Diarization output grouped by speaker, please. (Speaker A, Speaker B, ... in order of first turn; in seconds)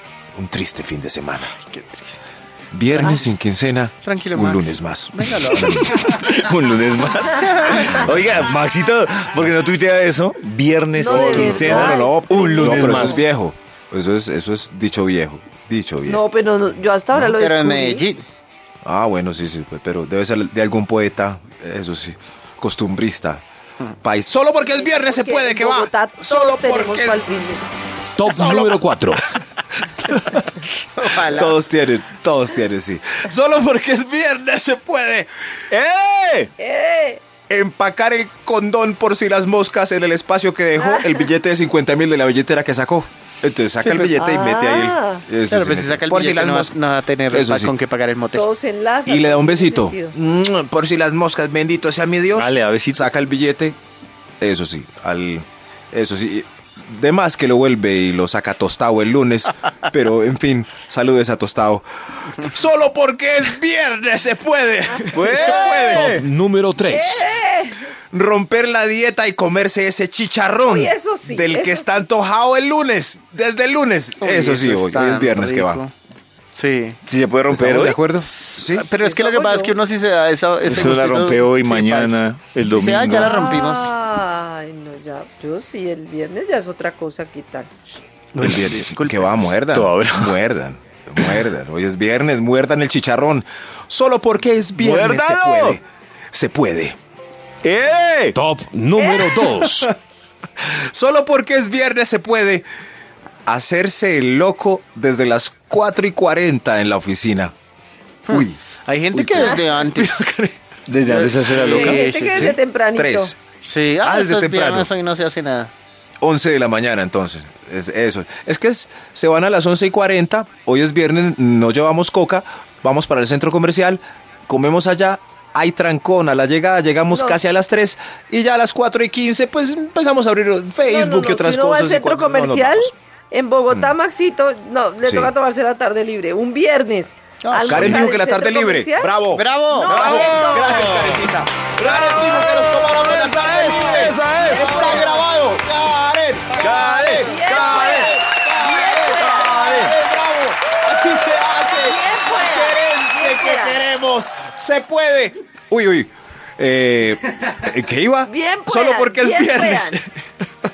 Speaker A: 0.3-1.5, 2.7-6.0, 8.1-8.4, 11.1-16.2, 18.8-23.4, 24.0-27.2, 28.2-28.9, 30.0-30.4, 31.2-35.3, 37.5-46.8, 47.3-47.7, 49.0-53.8, 54.4-66.2, 68.1-75.8, 77.5-78.8, 88.4-97.0, 100.6-102.6, 103.5-107.5, 108.3-108.6, 109.1-110.5, 112.3-113.3, 114.0-114.9, 116.2-132.9, 135.0-135.3, 137.7-160.1
Speaker B: 1.5-2.3, 4.0-6.3, 7.2-8.1, 17.1-18.2, 30.9-31.6, 43.8-44.1, 45.5-48.5, 74.2-75.9, 76.5-77.0, 78.4-83.9, 88.3-89.2, 108.3-110.2, 111.0-112.5, 113.6-115.7, 137.4-138.1, 139.3-141.0, 143.7-145.2
Speaker C: 5.7-13.2, 35.7-36.5, 52.3-53.1, 65.1-66.2, 77.1-78.0, 80.6-83.3, 89.7-90.4, 94.8-95.8, 97.6-98.3, 110.9-112.0, 139.9-141.2, 141.8-145.0, 146.6-148.1, 149.3-149.9
Speaker D: 10.9-13.1, 16.1-18.1, 24.7-27.6, 36.6-37.2, 40.8-41.3, 44.1-45.2, 48.3-50.1, 65.3-65.6, 66.9-67.8, 70.7-72.0, 79.0-79.7, 83.2-88.0, 99.0-99.3, 111.6-113.3, 127.1-127.4, 130.8-139.1, 139.7-141.0, 144.5-145.1, 147.2-149.6, 151.7-153.8, 158.3-160.0
Speaker E: 28.2-29.2, 65.7-67.3, 98.3-99.9